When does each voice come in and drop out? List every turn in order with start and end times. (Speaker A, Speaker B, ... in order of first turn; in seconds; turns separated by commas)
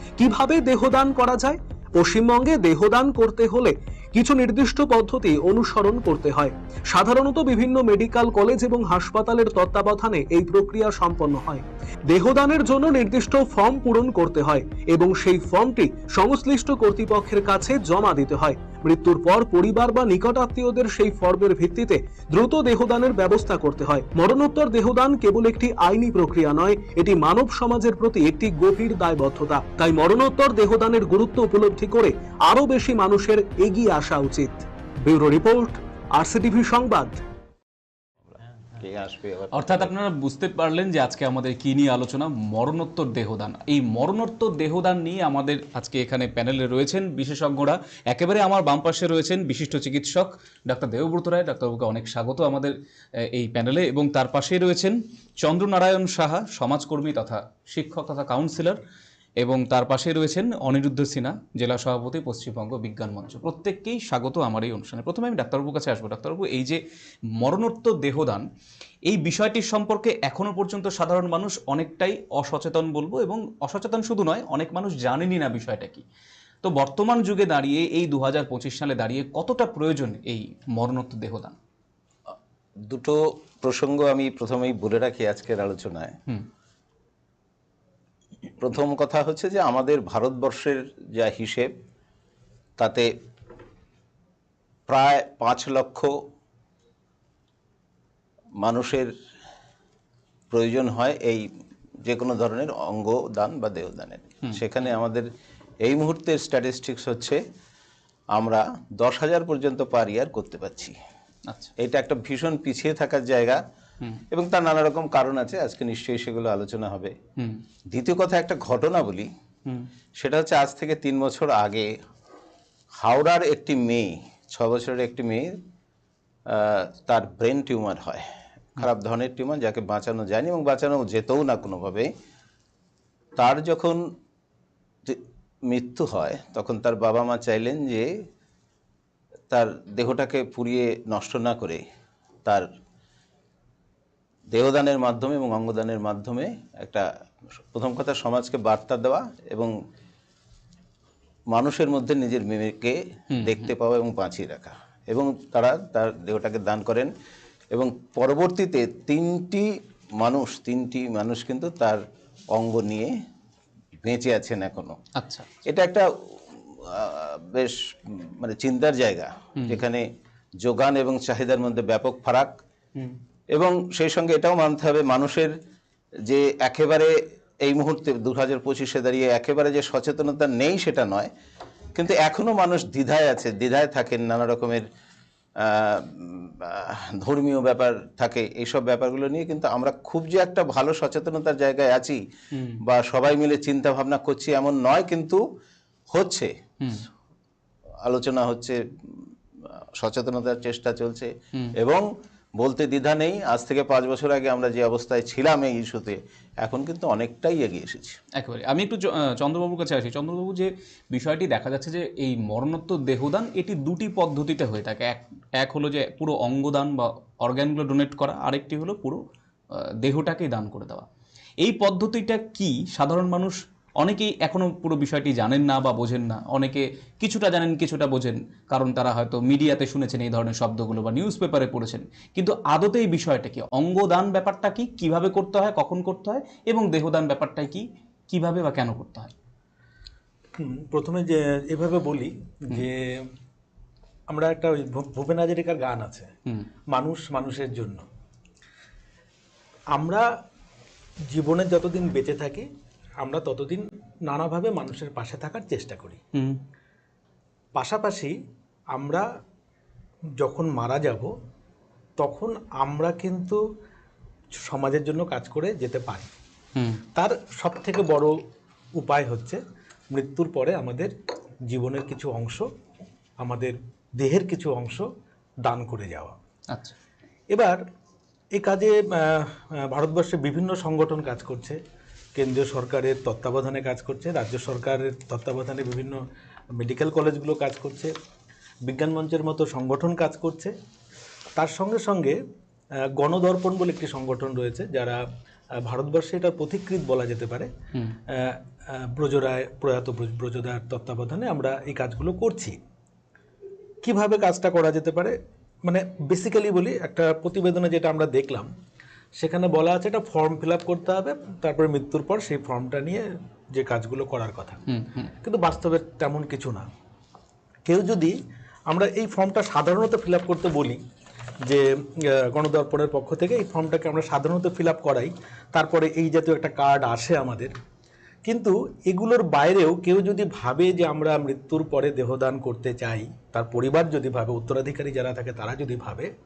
Speaker A: 0.2-37.2, Speaker B: 38.7-39.9, Speaker C: 39.5-52.7, Speaker C: 53.3-58.8, Speaker C: 59.4-66.8, Speaker C: 67.4-68.4, Speaker C: 69.1-76.0, Speaker C: 76.6-81.6, Speaker B: 82.9-86.1, Speaker B: 88.6-91.7, Speaker B: 92.8-93.1, Speaker B: 94.9-96.1, Speaker B: 98.6-99.1, Speaker B: 100.5-101.4, Speaker B: 102.0-105.2, Speaker B: 105.8-107.4, Speaker B: 108.3-111.0, Speaker C: 111.5-111.7, Speaker B: 111.8-113.6, Speaker B: 114.3-117.1, Speaker B: 117.9-119.3, Speaker B: 120.2-121.9, Speaker B: 123.0-125.5, Speaker B: 126.5-128.2, Speaker B: 128.8-132.1, Speaker B: 133.4-134.0, Speaker B: 135.0-138.1, Speaker B: 139.5-141.8, Speaker B: 144.5-147.0, Speaker B: 147.7-149.7, Speaker B: 151.5-157.1, Speaker C: 153.3-153.7, Speaker B: 157.7-159.7, Speaker B: 160.2-162.0, Speaker B: 162.5-163.1, Speaker B: 164.0-165.0, Speaker C: 165.2-165.5, Speaker B: 165.7-166.1, Speaker B: 166.8-170.0, Speaker B: 170.6-172.5, Speaker B: 173.5-175.5, Speaker B: 176.3-177.1, Speaker B: 177.6-181.3, Speaker B: 181.9-184.8, Speaker B: 185.6-192.2, Speaker C: 192.5-192.8, Speaker B: 192.8-195.4, Speaker B: 196.1-196.5, Speaker B: 198.1-199.2, Speaker B: 200.0-202.0, Speaker B: 202.6-208.2, Speaker C: 208.3-219.2, Speaker C: 220.0-221.0, Speaker C: 221.6-239.3, Speaker D: 240.6-243.3, Speaker D: 244.3-246.3, Speaker D: 246.9-248.0, Speaker D: 249.9-250.2, Speaker D: 251.3-252.7, Speaker D: 253.2-256.2, Speaker C: 256.3-256.6, Speaker D: 257.7-258.3, Speaker D: 258.9-259.2, Speaker D: 260.4-261.3, Speaker D: 262.2-263.6, Speaker D: 264.6-266.3, Speaker D: 267.1-268.3, Speaker D: 269.0-269.6, Speaker D: 270.1-271.1, Speaker D: 271.7-272.6, Speaker D: 273.4-275.1, Speaker D: 275.6-276.3, Speaker D: 277.5-277.8, Speaker D: 278.5-281.8, Speaker D: 282.3-286.2, Speaker D: 286.8-288.1, Speaker D: 288.8-290.7, Speaker D: 291.6-292.4, Speaker D: 293.1-295.2, Speaker D: 295.8-297.7, Speaker D: 298.3-302.8, Speaker D: 304.0-308.7, Speaker D: 309.4-314.8, Speaker C: 314.9-315.3, Speaker D: 315.4-316.9, Speaker D: 317.8-318.4, Speaker D: 318.9-321.0, Speaker D: 321.6-327.7, Speaker D: 328.4-336.3